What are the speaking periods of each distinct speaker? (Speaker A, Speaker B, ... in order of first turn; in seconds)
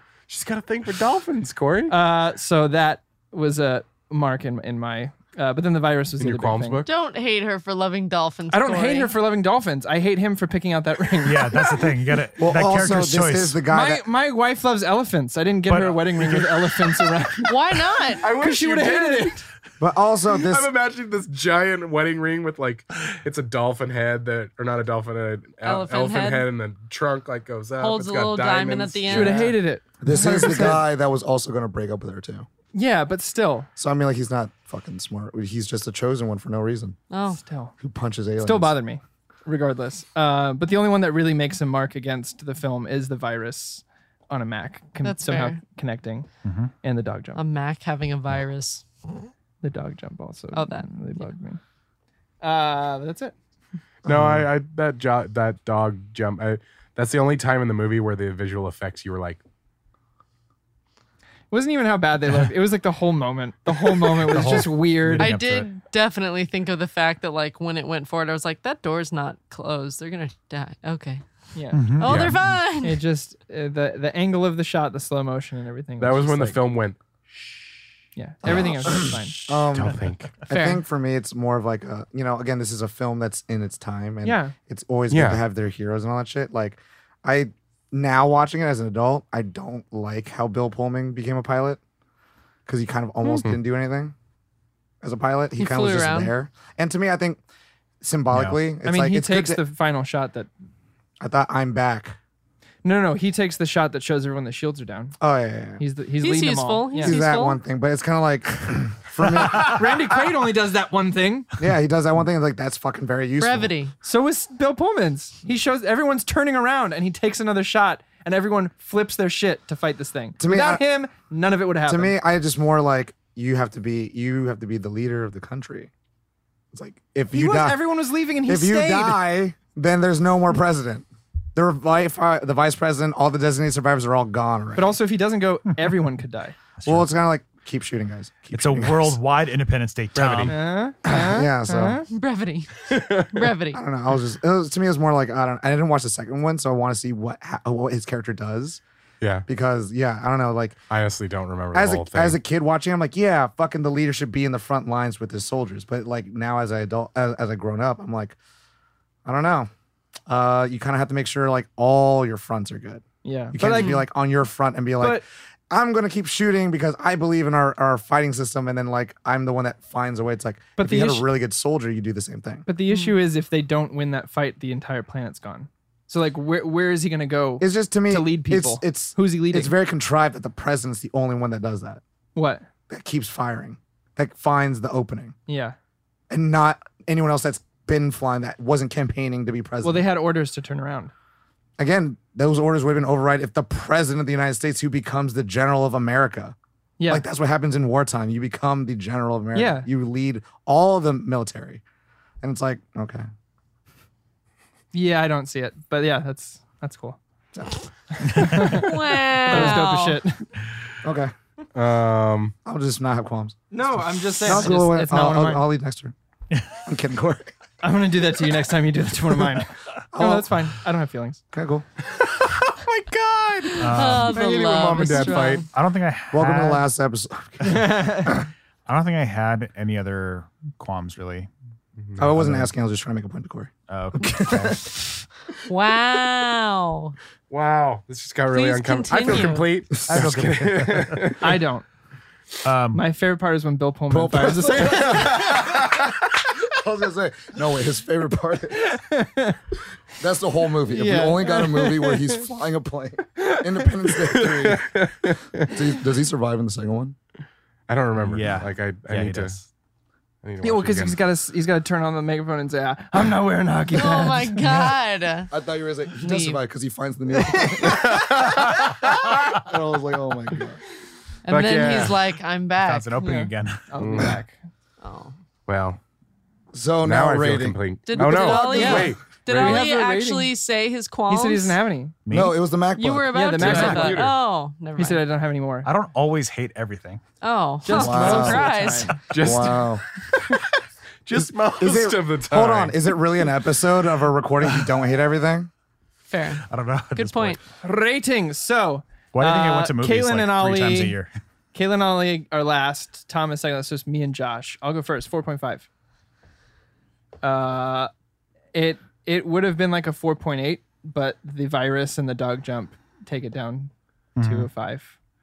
Speaker A: 0.3-1.9, 6.2-6.9, 18.2-19.4, 20.3-29.5, 54.0-59.4, 72.0-72.3, 76.0-77.0, 79.7-80.3, 85.1-85.4, 93.2-93.6, 140.1-140.6, 142.9-143.5, 150.9-152.4, 211.7-212.5, 222.0-225.7, 232.0-232.3, 237.5-241.6, 245.0-246.1, 254.2-255.8, 257.9-259.6, 260.4-261.2, 267.7-269.6, 271.5-272.2, 274.0-274.4, 275.7-276.0, 277.0-279.9, 283.6-284.3, 289.3-293.2
Speaker B: 1.9-6.8, 8.5-11.9, 13.7-19.4, 29.1-30.8, 32.7-33.7, 37.3-37.7, 38.4-46.3, 46.8-47.4, 49.6-51.6, 52.4-53.3, 61.5-65.4, 71.5-76.6, 78.2-79.6, 84.2-84.5, 98.8-100.5, 102.8-105.1, 105.8-107.2, 109.5-111.5, 114.0-122.1, 127.3-129.2, 134.8-136.6, 140.5-142.1, 163.2-164.0, 170.8-171.2, 172.7-179.8, 182.3-182.7, 185.5-185.8, 189.8-191.1, 197.0-197.2, 199.5-199.9, 204.9-207.2, 208.2-210.5, 213.7-215.6, 217.8-221.4, 227.6-228.4, 241.4-241.8, 242.9-245.6, 248.8-249.6, 250.9-252.4, 260.6-264.6, 273.2-274.6, 278.3-280.5, 281.3-282.1, 283.3-284.2, 284.9-285.9, 287.8-289.2, 297.8-301.1, 301.7-305.9, 307.4-308.1, 308.7-315.1
Speaker C: 6.8-9.1, 17.4-18.3, 25.6-26.5, 27.8-29.5, 37.1-37.4, 45.0-45.6, 47.3-48.8, 50.5-51.3, 65.2-73.0, 80.5-80.8, 95.6-96.3, 106.2-107.6, 113.4-113.9, 142.1-143.8, 163.7-164.0, 172.9-173.1, 208.6-210.2, 223.7-225.7, 235.7-237.2, 238.5-239.7, 263.9-265.5, 266.2-266.6, 271.4-273.1, 275.0-275.3, 278.1-281.8, 282.9-285.2, 287.4-289.2, 296.3-297.6
Speaker D: 11.2-13.6, 15.7-17.2, 46.4-46.7, 64.0-65.7, 71.7-72.5, 98.3-98.7, 136.8-137.1, 138.5-140.6, 208.2-208.8, 216.5-216.8, 223.8-224.4, 225.7-226.9, 228.9-231.5, 232.3-232.7, 233.9-234.8, 240.1-241.3, 242.6-243.0, 258.2-259.6, 272.8-273.9, 282.2-282.6, 283.7-284.0, 285.8-287.2, 296.6-297.6, 299.3-301.3, 314.4-314.7
Speaker E: 12.4-14.0, 19.8-20.7, 30.0-32.5, 33.8-37.0, 37.8-38.8, 54.0-54.5, 78.4-91.8, 92.7-94.1, 95.0-97.4, 98.0-99.6, 101.2-102.2, 105.2-105.8, 107.0-110.0, 111.6-113.7, 120.4-120.8, 121.9-125.9, 126.7-127.8, 128.4-135.0, 136.8-139.2, 141.0-142.0, 143.7-148.8, 149.5-150.8, 151.7-158.3, 159.2-159.7, 160.3-172.7, 177.6-182.0, 182.9-185.3, 186.3-190.1, 191.8-196.6, 197.1-201.8, 202.4-203.2, 207.5-207.9, 211.0-211.3, 212.6-213.6, 214.4-216.1, 216.8-217.5, 220.1-220.6, 221.5-221.8, 226.3-228.5, 232.2-234.8, 244.1-248.9, 250.2-255.0, 255.6-257.1, 265.5-268.4, 269.5-270.8, 276.7-279.0, 282.3-283.3, 287.9-288.7, 289.3-290.0, 291.3-295.7